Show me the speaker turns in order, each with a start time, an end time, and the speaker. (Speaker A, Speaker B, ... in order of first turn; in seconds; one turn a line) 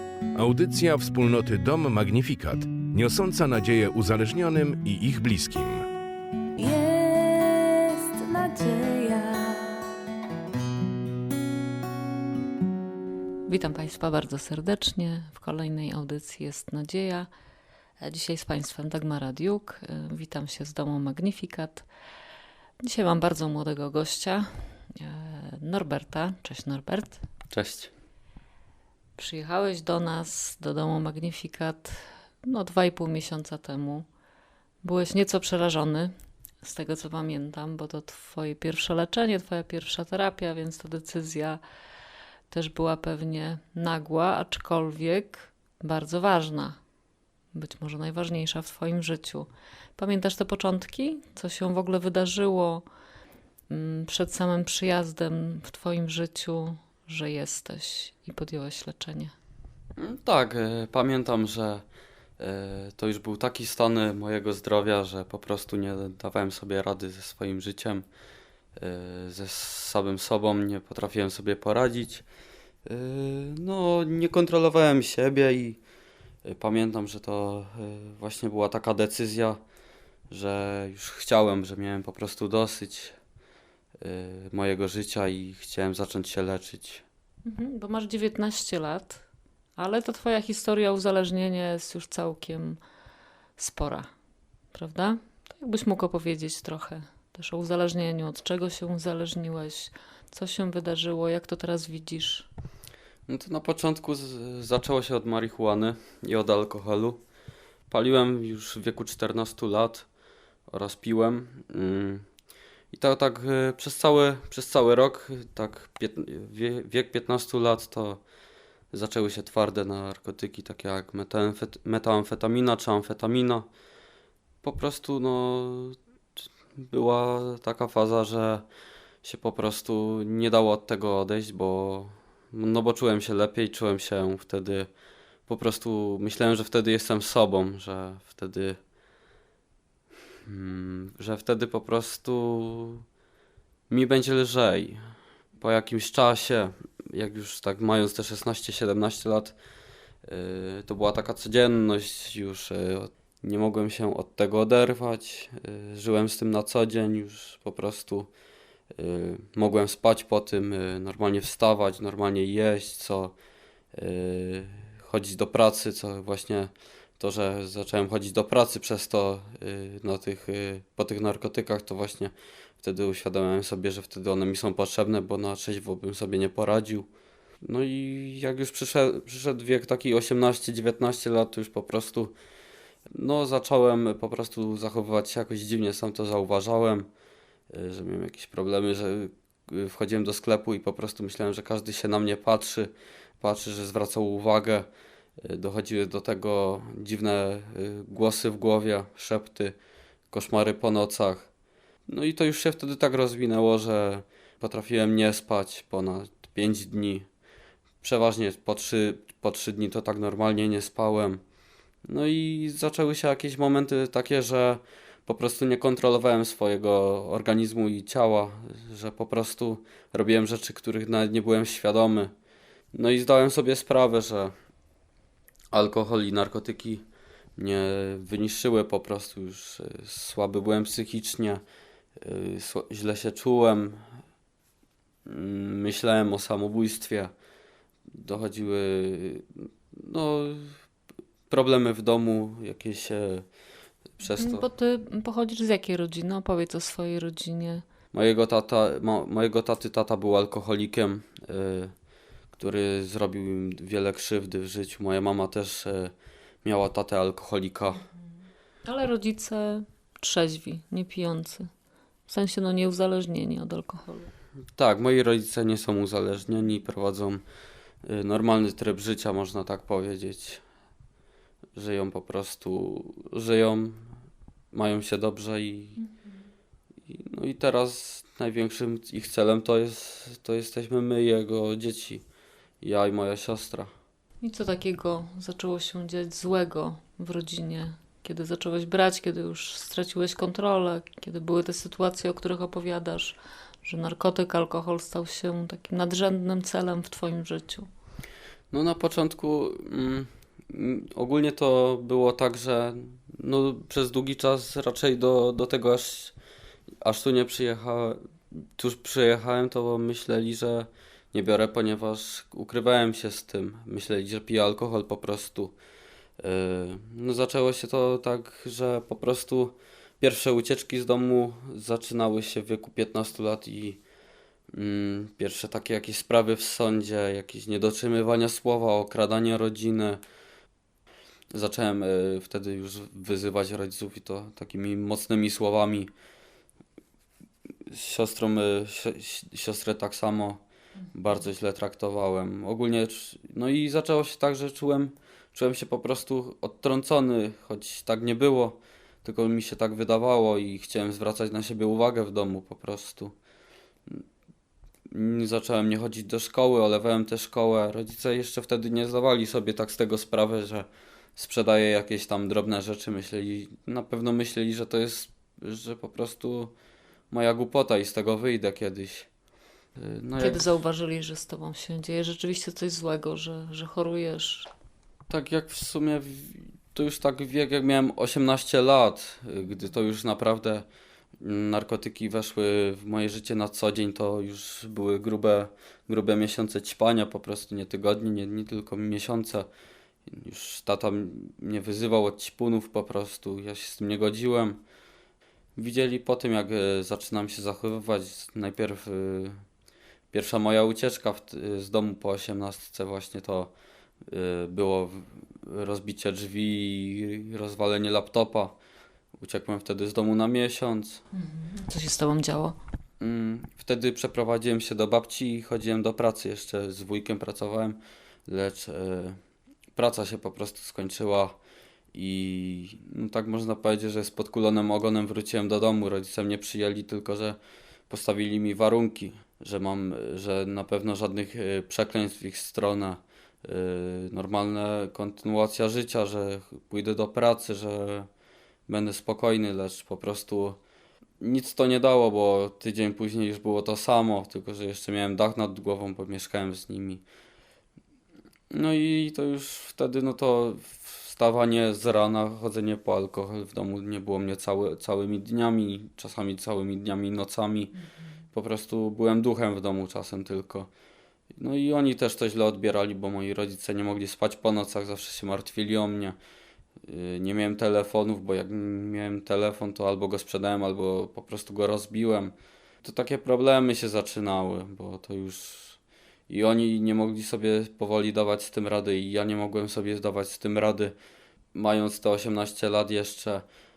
Speaker A: 0.3-5.8
Speaker B: 6.7-9.2
Speaker C: 13.5-17.3
Speaker C: 18.0-21.9
Speaker C: 22.8-27.2
Speaker D: 27.5-27.9
Speaker C: 29.2-34.0
Speaker C: 34.8-41.6
Speaker C: 42.5-46.8
Speaker C: 47.5-52.8
Speaker C: 53.7-59.3
Speaker D: 60.0-61.8
Speaker D: 62.4-68.0
Speaker D: 68.8-72.2
Speaker D: 72.8-75.8
Speaker D: 76.4-79.6
Speaker D: 80.3-83.2
Speaker D: 84.0-87.0
Speaker C: 87.4-89.2
Speaker C: 89.8-92.8
Speaker C: 93.6-94.1
Speaker C: 94.7-102.5
Speaker D: 103.3-107.2
Speaker D: 107.9-110.1
Speaker D: 110.7-112.2
Speaker D: 112.9-118.2
Speaker D: 118.9-123.7
Speaker D: 124.6-126.0
Speaker D: 126.8-128.6
Speaker D: 129.2-134.9
Speaker D: 135.5-138.8
Speaker D: 140.5-143.0
Speaker D: 143.9-149.6
Speaker D: 150.2-158.3
Speaker D: 158.9-163.3
Speaker D: 163.9-177.1
Speaker D: 177.6-182.3
Speaker D: 183.1-187.1
Speaker D: 187.7-194.9
Speaker D: 195.4-199.8
Speaker D: 200.3-201.5
Speaker D: 202.1-207.3
Speaker D: 208.0-211.4
Speaker D: 212.1-222.3
Speaker D: 222.9-224.5
Speaker D: 225.7-227.0
Speaker D: 227.6-231.6
Speaker D: 232.2-234.0
Speaker D: 235.2-237.3
Speaker D: 238.2-240.8
Speaker D: 241.5-243.5
Speaker D: 244.2-244.7
Speaker C: 244.3-247.8
Speaker D: 248.1-251.9
Speaker D: 252.5-256.1
Speaker D: 256.6-258.0
Speaker C: 258.8-261.7
Speaker C: 262.3-264.3
Speaker D: 264.7-267.4
Speaker D: 268.1-270.6
Speaker D: 271.7-274.1
Speaker D: 274.7-276.0
Speaker C: 276.0-276.4
Speaker D: 277.1-282.2
Speaker D: 282.8-283.9
Speaker C: 284.4-297.9
Speaker D: 298.7-306.3
Speaker D: 307.0-308.2
Speaker D: 308.8-315.8
Speaker D: 316.4-324.0
Speaker D: 324.7-330.2
Speaker D: 331.5-336.1
Speaker D: 337.9-340.6
Speaker D: 341.1-353.3
Speaker D: 355.1-366.7
Speaker D: 367.3-369.3
Speaker D: 370.0-370.7
Speaker C: 370.4-374.7
Speaker D: 375.3-380.9
Speaker D: 381.4-389.7
Speaker D: 390.3-394.8
Speaker D: 395.8-399.6
Speaker D: 400.3-403.7
Speaker D: 404.3-408.8
Speaker D: 409.4-411.2
Speaker C: 411.3-412.8
Speaker D: 413.2-419.4
Speaker D: 419.9-421.6
Speaker D: 422.1-427.6
Speaker D: 428.1-438.3
Speaker D: 438.9-440.8
Speaker D: 441.4-447.2
Speaker D: 448.7-457.9
Speaker D: 458.5-460.9
Speaker D: 461.5-466.4
Speaker D: 467.0-481.1
Speaker D: 481.7-483.6